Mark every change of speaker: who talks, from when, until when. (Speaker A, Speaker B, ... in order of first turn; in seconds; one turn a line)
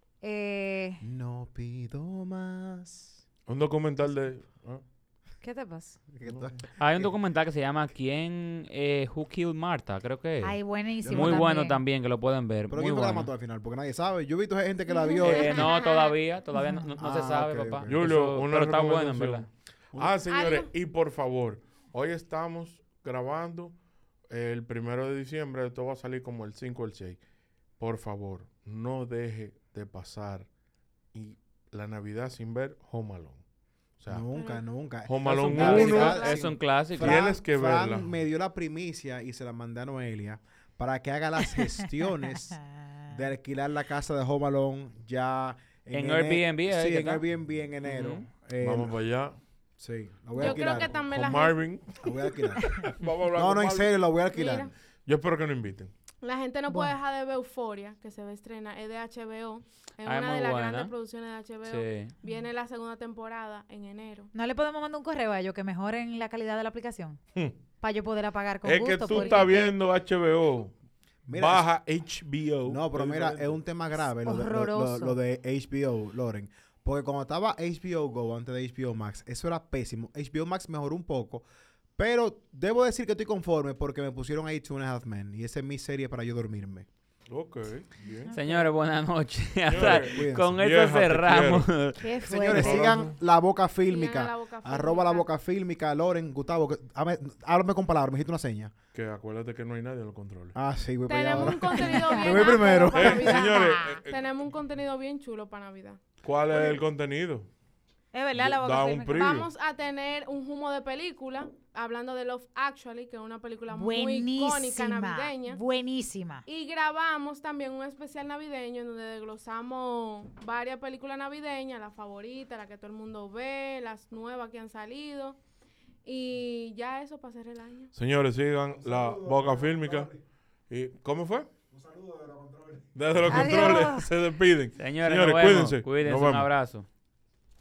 Speaker A: 0.2-1.0
Speaker B: 1.0-3.2
Speaker C: 3.5-4.8
Speaker A: 5.4-6.0
Speaker B: 6.1-7.1
Speaker C: 6.2-6.5
Speaker D: 6.8-13.3
Speaker A: 10.4-11.8
Speaker B: 11.0-11.5
Speaker B: 12.7-15.7
Speaker E: 14.9-16.1
Speaker D: 15.2-19.5
Speaker A: 16.5-16.9
Speaker B: 17.0-18.0
Speaker C: 17.9-23.7
Speaker E: 20.3-20.7
Speaker C: 24.3-27.2
Speaker C: 27.8-30.5
Speaker C: 31.1-33.4
Speaker C: 34.0-34.2
Speaker B: 34.1-42.6
Speaker E: 34.3-34.6
Speaker C: 35.0-38.1
Speaker D: 35.5-37.2
Speaker E: 35.7-36.5
Speaker A: 42.9-43.2
Speaker B: 43.1-48.9
Speaker D: 45.9-47.2
Speaker D: 47.8-48.3
Speaker C: 48.6-49.4
Speaker B: 49.8-51.3
Speaker E: 50.4-51.8
Speaker C: 50.4-52.0
Speaker B: 52.0-52.6
Speaker C: 52.9-53.9
Speaker B: 53.3-54.7
Speaker E: 54.3-54.7
Speaker C: 55.0-55.9
Speaker E: 56.2-64.3
Speaker A: 56.7-56.9
Speaker D: 60.0-60.9
Speaker D: 61.6-62.1
Speaker A: 64.3-67.2
Speaker A: 67.8-69.8
Speaker C: 68.6-70.7
Speaker E: 69.1-69.4
Speaker B: 71.3-71.7
Speaker C: 71.3-73.6
Speaker B: 72.7-81.4
Speaker A: 74.2-75.2
Speaker B: 82.0-86.9
Speaker C: 87.3-88.3
Speaker A: 88.0-88.7
Speaker D: 88.3-92.1
Speaker C: 89.7-91.7
Speaker B: 89.7-90.6
Speaker A: 92.0-93.0
Speaker B: 92.2-98.7
Speaker C: 92.5-93.1
Speaker E: 93.9-95.3
Speaker C: 98.9-100.5
Speaker B: 100.5-103.4
Speaker E: 101.1-106.1
Speaker A: 101.4-104.0
Speaker C: 102.9-104.2
Speaker C: 106.2-107.5
Speaker A: 108.1-109.4
Speaker C: 108.3-109.5
Speaker E: 109.1-115.6
Speaker A: 113.7-116.4
Speaker E: 116.5-125.4
Speaker E: 126.0-127.9
Speaker C: 127.9-130.1
Speaker B: 128.8-130.2
Speaker C: 130.7-131.5
Speaker B: 131.7-132.9
Speaker C: 132.9-136.5
Speaker A: 133.3-134.1
Speaker D: 134.8-136.8